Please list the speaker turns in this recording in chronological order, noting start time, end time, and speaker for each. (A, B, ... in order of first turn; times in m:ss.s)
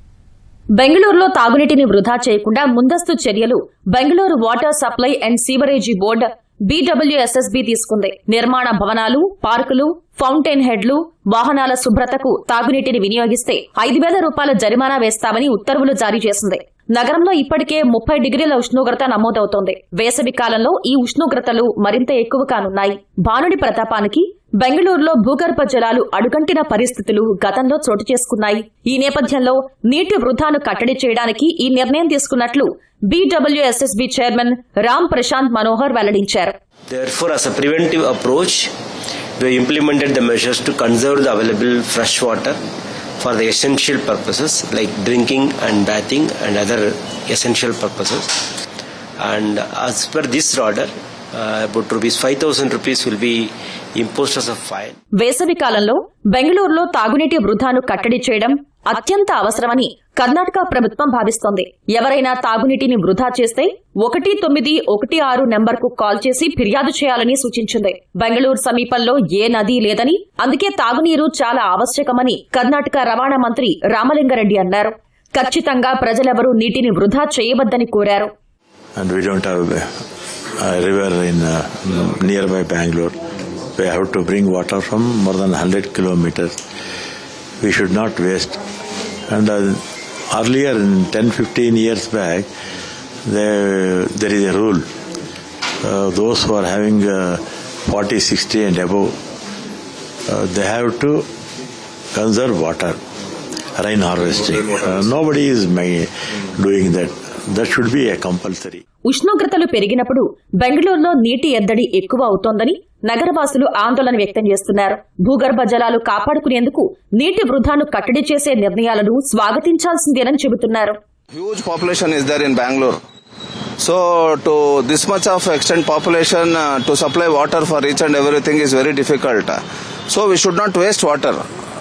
0:00.8-0:36.5 A
0:36.9-0:38.7 B
0:39.4-0:42.6 B
0:43.2-0:48.4 B
0:49.2-0:55.0 B
0:55.1-1:18.3 A
1:19.0-1:19.9 C
1:20.6-1:23.2 C
1:23.7-1:26.5 C
1:27.6-1:28.6 C
1:29.3-1:32.5 C
1:33.2-1:34.8 C
1:35.8-1:39.1 C
1:40.3-1:41.2 C
1:42.1-1:43.0 C
1:43.8-1:48.8 C
1:49.0-2:01.0 A
2:01.3-2:03.0 D
2:03.8-2:11.4 D